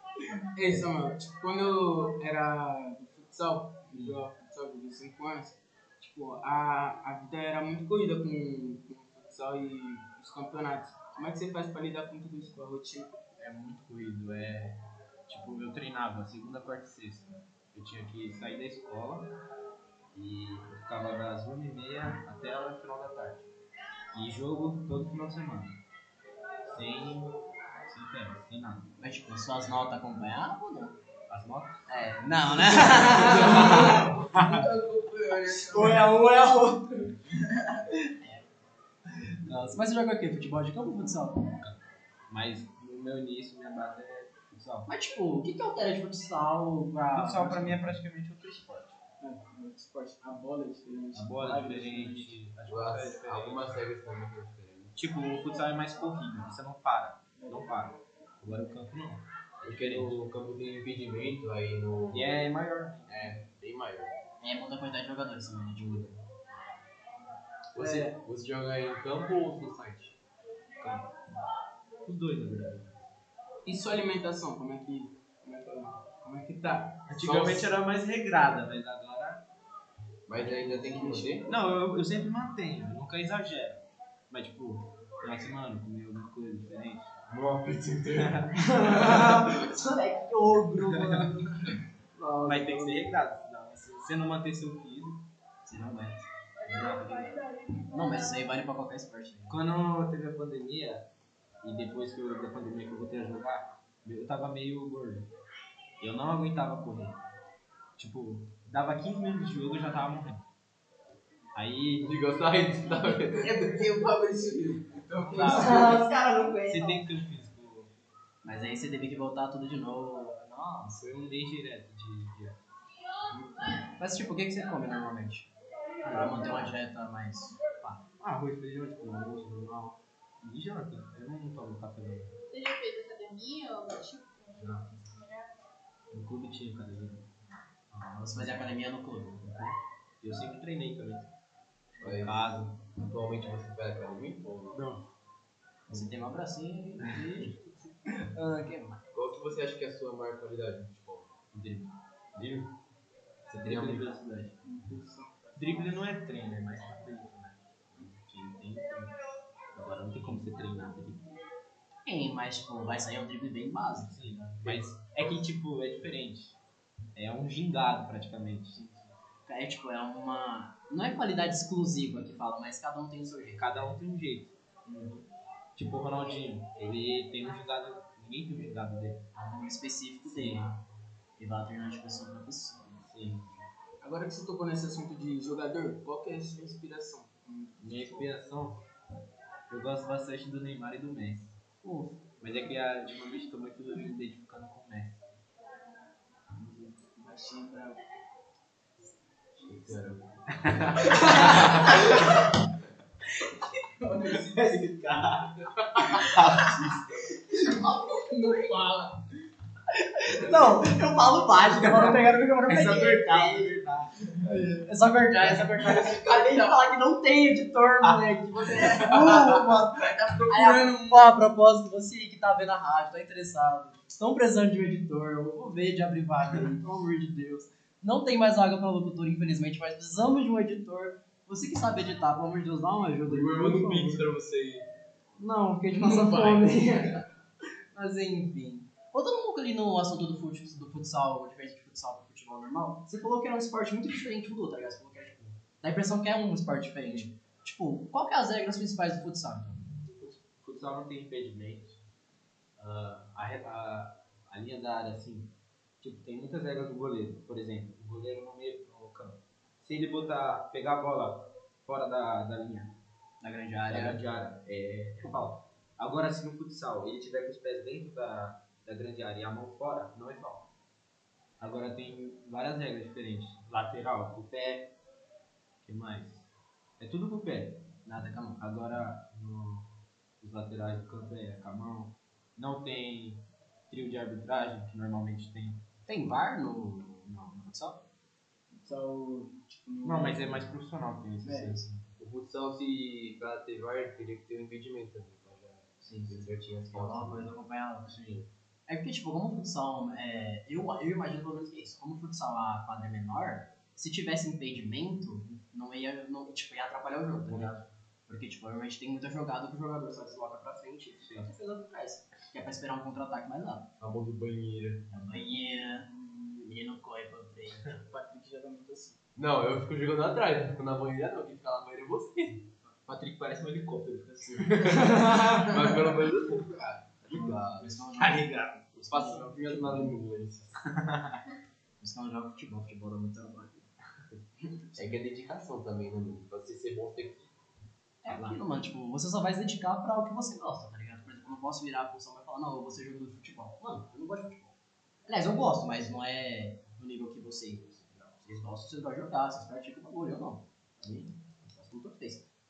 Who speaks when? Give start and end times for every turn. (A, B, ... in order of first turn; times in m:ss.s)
0:00.5-0:13.1 A
0:13.4-0:19.3 B
0:20.1-0:23.5 B
0:24.1-0:25.8 B
0:26.6-0:28.9 B
0:29.0-0:31.0 C
0:31.3-0:31.8 B
0:31.9-0:34.1 C
0:32.9-0:34.6 B
0:33.3-0:37.8 A
0:35.7-0:36.6 C
0:38.0-0:38.4 C
0:39.4-0:41.4 C
0:41.6-0:44.9 B
0:44.8-0:47.8 C
0:47.1-0:49.0 B
0:49.2-0:52.4 A
0:51.1-0:53.8 B
0:52.6-0:55.0 D
0:55.0-1:00.2 B
0:59.6-1:02.4 D
1:02.1-1:03.4 B
1:03.1-1:04.1 D
1:04.4-1:06.0 C
1:05.8-1:06.2 D
1:07.7-1:10.2 D
1:07.8-1:08.1 A
1:10.8-1:11.1 B
1:12.0-1:13.1 B
1:13.6-1:17.0 A
1:17.1-1:19.4 B
1:17.2-1:17.7 D
1:20.3-1:21.5 D
1:20.6-1:27.2 B
1:20.8-1:21.4 C
1:27.3-1:28.4 D
1:28.2-1:29.3 B
1:28.8-1:33.1 C
1:30.9-1:31.2 B
1:32.4-1:35.2 B
1:35.6-1:39.6 C
1:39.5-1:41.1 B
1:41.6-1:45.3 B
1:46.0-1:47.2 B
1:48.0-1:50.5 B
1:51.5-1:52.2 B
1:52.0-1:53.5 D
1:52.9-1:56.5 A
1:55.1-1:56.0 B
1:55.4-1:56.9 C
1:56.6-1:57.9 B
1:58.4-2:01.0 C
2:01.0-2:02.6 B
2:03.8-2:05.5 C
2:06.0-2:07.8 C
2:06.0-2:06.5 B
2:07.8-2:12.4 B
2:12.5-2:15.5 E
2:14.6-2:15.0 B
2:16.1-2:17.3 B
2:17.9-2:19.5 C
2:19.4-2:21.3 B
2:22.0-2:24.8 D
2:22.0-2:22.7 B
2:25.9-2:29.0 C
2:29.1-2:32.7 D
2:33.5-2:34.0 D
2:33.5-2:34.6 B
2:34.6-2:36.0 A
2:35.6-2:39.1 B
2:39.7-2:41.2 B
2:42.0-2:44.8 C
2:44.0-2:46.6 B
2:47.1-2:48.8 B
2:49.4-2:53.8 C
2:53.6-2:55.2 B
2:55.8-2:59.2 B
2:59.3-3:00.8 C
3:00.2-3:00.7 B
3:01.4-3:03.0 C
3:03.0-3:03.5 B
3:04.0-3:08.3 A
3:07.8-3:08.8 B
3:09.7-3:11.6 B
3:11.8-3:12.2 C
3:12.4-3:15.2 B
3:16.5-3:18.0 A
3:19.6-3:20.4 D
3:20.5-3:22.0 B
3:21.1-3:22.4 A
3:23.6-3:29.2 A
3:24.5-3:25.6 B
3:26.2-3:27.0 B
3:30.2-3:33.7 C
3:31.8-3:34.4 B
3:34.4-3:34.9 A
3:34.8-3:54.2 C
3:35.8-3:36.8 A
3:38.7-3:41.3 A
3:53.2-3:54.8 D
3:55.4-3:57.2 C
3:56.0-3:56.8 A
3:57.9-4:10.0 C
4:10.2-4:12.0 B
4:12.8-4:23.0 B
4:23.4-4:24.2 C
4:23.9-4:30.7 B
4:31.6-4:34.9 B
4:35.8-4:36.5 B
4:37.0-4:37.9 B
4:38.0-4:38.6 C
4:38.6-4:39.9 B
4:40.4-4:45.8 B
4:46.0-4:48.0 C
4:48.8-4:50.7 A
4:50.0-4:51.8 B
4:51.4-4:51.7 A
4:51.5-4:52.0 C
4:52.2-4:57.6 D
4:56.1-5:13.9 C
4:58.0-4:58.4 B
5:07.5-5:07.8 B
5:11.2-5:11.5 B
5:14.0-5:15.1 D
5:15.1-5:18.0 C
5:16.2-5:16.6 A
5:18.0-5:19.2 A
5:19.4-5:22.7 D
5:23.1-5:25.8 B
5:25.6-5:28.1 D
5:27.8-5:30.2 C
5:28.2-5:28.8 B
5:29.0-5:30.8 D
5:30.9-5:31.4 B
5:32.0-5:33.9 C
5:35.0-5:37.5 D
5:38.2-5:44.7 C
5:38.3-5:38.6 B
5:45.2-5:52.4 C